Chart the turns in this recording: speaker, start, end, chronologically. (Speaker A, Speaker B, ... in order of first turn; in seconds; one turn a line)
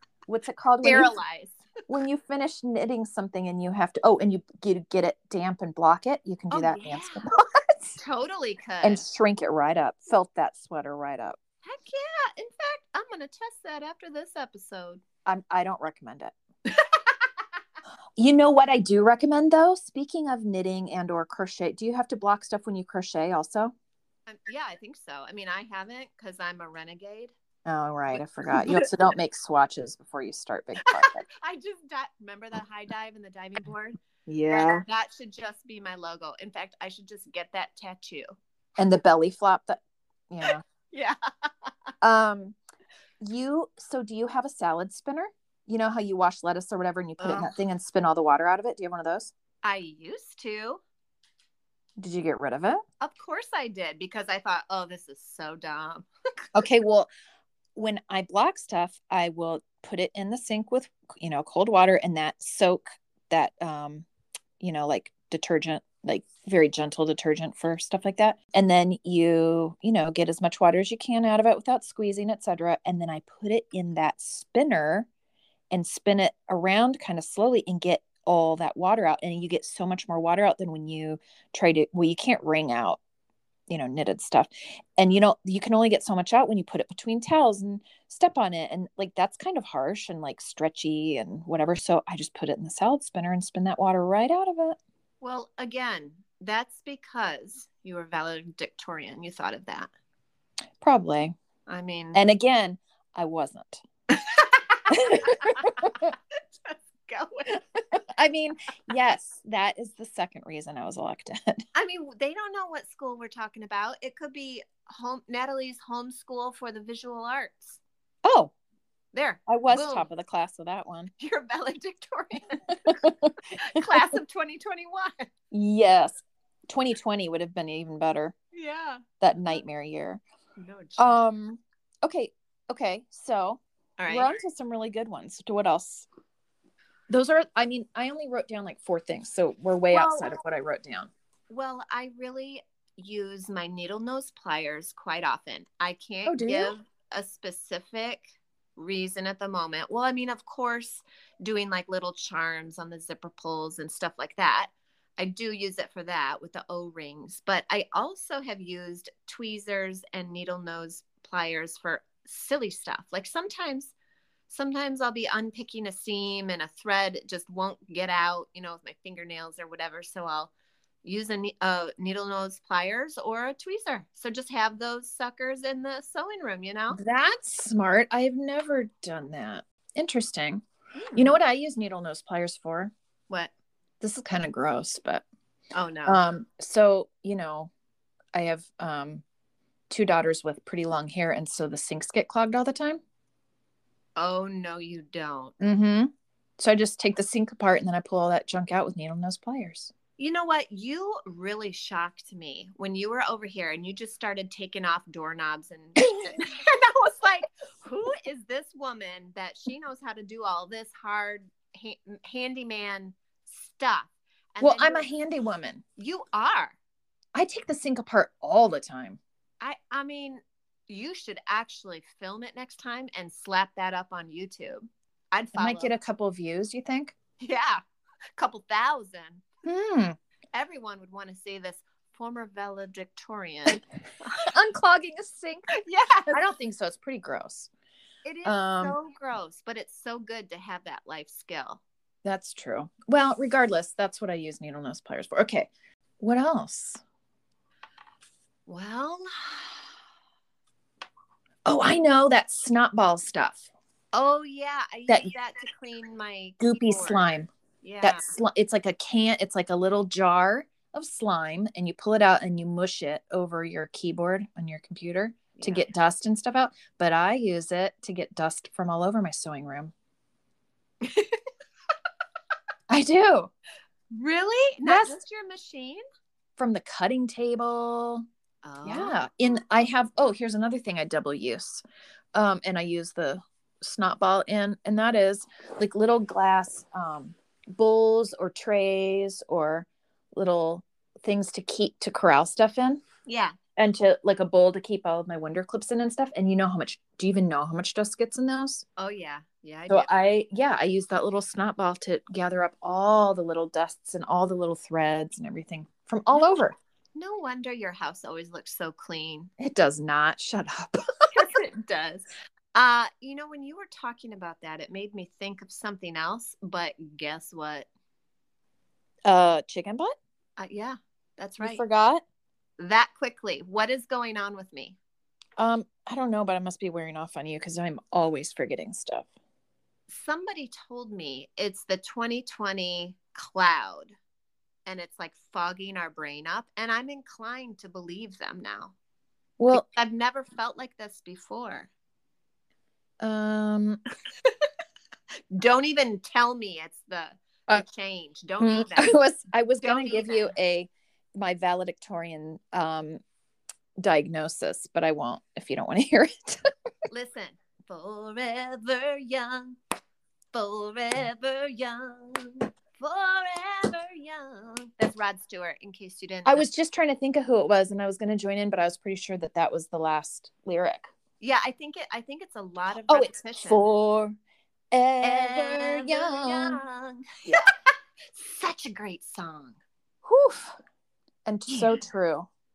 Speaker A: 0.3-1.1
Speaker B: 0.8-1.6
Speaker A: 1.9-8.0
Speaker B: 6.5-7.2
Speaker B: 8.0-9.0
Speaker A: 8.8-11.4
Speaker B: 11.6-15.0
Speaker A: 15.2-16.3
Speaker B: 16.7-17.2
Speaker A: 18.2-23.7
Speaker B: 24.3-27.3
Speaker A: 27.6-31.2
Speaker B: 28.1-28.9
Speaker B: 30.9-34.0
Speaker A: 34.3-34.8
Speaker B: 34.5-38.3
Speaker A: 38.8-40.6
Speaker B: 40.5-41.1
Speaker A: 42.0-42.6
Speaker A: 43.2-49.3
Speaker B: 47.2-47.5
Speaker B: 49.6-50.8
Speaker A: 52.0-52.8
Speaker B: 53.0-56.1
Speaker A: 56.5-57.1
Speaker A: 57.7-64.0
Speaker A: 64.6-75.1
Speaker A: 75.7-83.0
Speaker A: 83.7-94.8
Speaker B: 95.2-99.9
Speaker A: 100.8-101.3
Speaker B: 101.7-102.2
Speaker A: 102.1-103.8
Speaker B: 104.1-107.8
Speaker A: 104.9-106.1
Speaker A: 107.9-111.6
Speaker B: 111.7-117.8
Speaker A: 118.2-118.5
Speaker B: 119.1-120.0
Speaker A: 119.5-121.1
Speaker B: 121.2-125.3
Speaker A: 122.8-123.3
Speaker A: 125.5-128.3
Speaker B: 128.5-129.0
Speaker A: 129.2-130.2
Speaker B: 130.6-131.2
Speaker A: 131.0-136.1
Speaker B: 134.0-134.4
Speaker A: 137.1-141.1
Speaker B: 139.9-140.3
Speaker B: 141.5-163.9
Speaker A: 146.2-146.7
Speaker B: 164.5-170.5
Speaker B: 171.0-177.0
Speaker A: 176.9-180.6
Speaker B: 180.9-181.3
Speaker A: 181.1-182.9
Speaker A: 184.0-185.2
Speaker B: 185.7-186.2
Speaker A: 186.1-187.7
Speaker A: 188.3-189.2
Speaker A: 189.9-193.0
Speaker B: 194.2-195.5
Speaker A: 195.6-199.9
Speaker B: 200.2-215.1
Speaker A: 214.6-215.8
Speaker B: 216.0-216.8
Speaker A: 217.3-219.2
Speaker B: 219.6-225.9
Speaker A: 225.6-227.1
Speaker B: 227.4-227.8
Speaker B: 228.4-229.4
Speaker A: 229.6-230.2
Speaker B: 230.5-234.4
Speaker A: 234.4-235.7
Speaker B: 235.8-236.4
Speaker A: 236.3-237.7
Speaker B: 238.2-241.8
Speaker A: 238.4-238.9
Speaker A: 242.2-247.0
Speaker B: 248.7-249.8
Speaker A: 251.6-253.7
Speaker B: 254.1-257.2
Speaker A: 255.1-255.3
Speaker A: 256.6-257.5
Speaker B: 257.8-258.3
Speaker A: 258.0-269.9
Speaker B: 265.5-265.9
Speaker B: 271.0-271.4
Speaker A: 272.9-273.5
Speaker B: 274.1-276.0
Speaker A: 274.8-275.2
Speaker A: 276.6-278.2
Speaker B: 278.6-279.1
Speaker A: 278.8-281.8
Speaker A: 282.3-293.0
Speaker B: 293.2-293.6
Speaker A: 293.8-298.8
Speaker B: 299.0-300.1
Speaker A: 299.9-306.7
Speaker B: 307.1-309.5
Speaker A: 309.6-311.3
Speaker B: 311.3-317.9
Speaker A: 319.2-320.1
Speaker B: 320.6-321.8
Speaker A: 321.6-322.2
Speaker B: 322.8-325.0
Speaker A: 325.6-329.3
Speaker B: 330.1-334.1
Speaker B: 334.9-338.9
Speaker A: 339.6-339.8
Speaker B: 339.7-341.9
Speaker A: 343.2-344.0
Speaker B: 345.5-349.2
Speaker A: 348.6-353.2
Speaker B: 349.8-350.5
Speaker A: 354.0-356.6
Speaker B: 357.1-359.8
Speaker B: 360.5-366.6
Speaker A: 366.4-371.1
Speaker B: 371.4-373.8
Speaker A: 373.1-374.4
Speaker A: 374.9-376.8
Speaker B: 375.2-379.8
Speaker A: 380.2-380.8
Speaker A: 381.4-382.5
Speaker B: 381.7-382.0